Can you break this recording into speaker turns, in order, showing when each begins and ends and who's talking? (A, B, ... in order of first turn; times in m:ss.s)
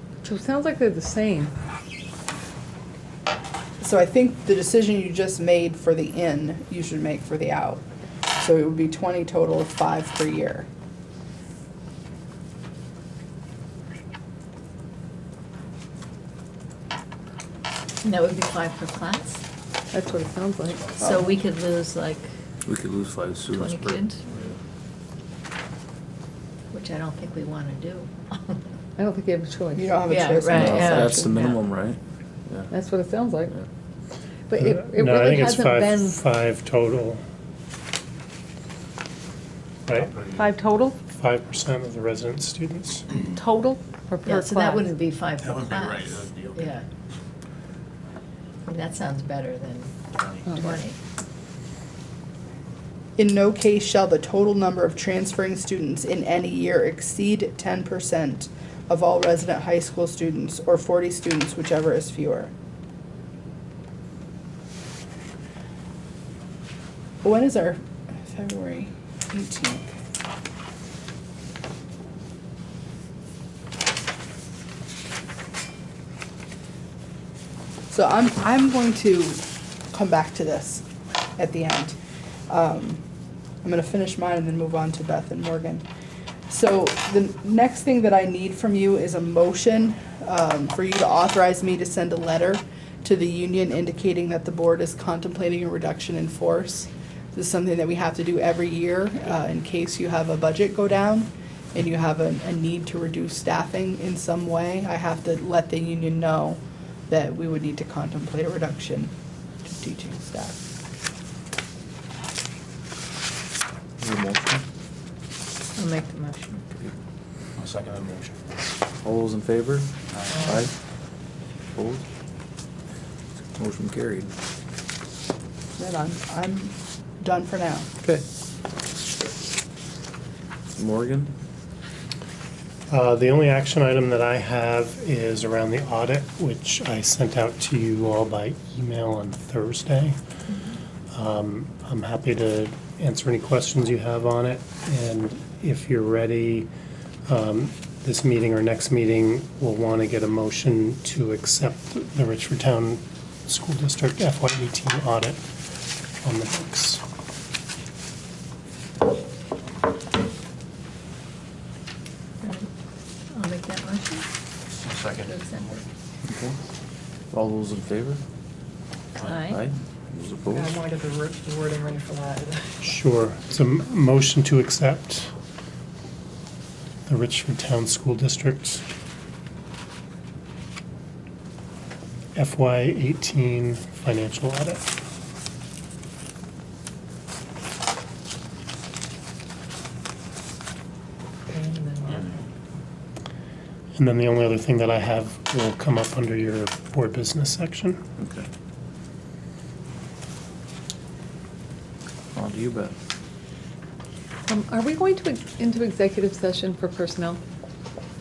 0:00.2-0:01.5 A
0:03.8-0:07.8 B
0:08.4-0:10.7 B
0:18.0-0:19.4 C
0:19.9-0:21.0 A
0:21.0-0:22.3 C
0:22.7-0:24.1 D
0:23.5-0:24.2 C
0:24.3-0:24.6 E
0:26.7-0:28.6 C
0:29.0-0:30.1 A
0:29.8-0:31.4 B
0:30.1-0:31.6 C
0:30.5-0:32.0 D
0:32.7-0:33.6 A
0:34.5-0:36.2 A
0:34.6-0:37.2 F
0:39.9-0:40.1 F
0:40.1-0:40.4 E
0:40.4-0:41.0 A
0:41.1-0:43.1 F
0:43.3-0:44.9 A
0:44.3-0:46.9 C
0:45.4-0:46.8 E
0:48.6-0:50.0 C
0:50.1-0:50.7 E
0:50.5-0:51.0 C
0:53.2-1:02.5 B
1:07.2-1:09.9 B
1:17.9-1:20.8 B
1:21.4-1:22.0 B
1:22.5-1:23.0 B
1:23.6-1:25.9 B
1:26.5-1:49.1 B
1:49.6-1:50.6 B
1:54.0-1:54.6 D
1:55.8-1:56.7 C
1:57.6-1:58.5 E
1:59.0-2:00.7 D
2:00.1-2:00.5 E
2:01.7-2:02.0 D
2:03.6-2:04.3 D
2:05.8-2:07.9 B
2:10.7-2:11.3 D
2:12.9-2:20.2 F
2:21.1-2:26.7 F
2:27.3-2:35.4 F
2:36.2-2:37.0 F
2:42.4-2:42.7 C
2:43.3-2:44.3 C
2:44.8-2:45.8 E
2:45.3-2:45.6 C
2:46.3-2:46.6 D
2:47.3-2:48.2 D
2:49.2-2:49.6 E
2:49.2-2:49.5 C
2:49.4-2:50.8 D
2:50.5-2:52.7 G
2:52.8-2:55.3 F
2:57.1-2:58.8 F
3:02.4-3:04.9 F
3:11.5-3:12.2 G
3:14.0-3:18.0 F
3:18.2-3:18.5 D
3:22.3-3:23.0 D
3:24.5-3:27.4 A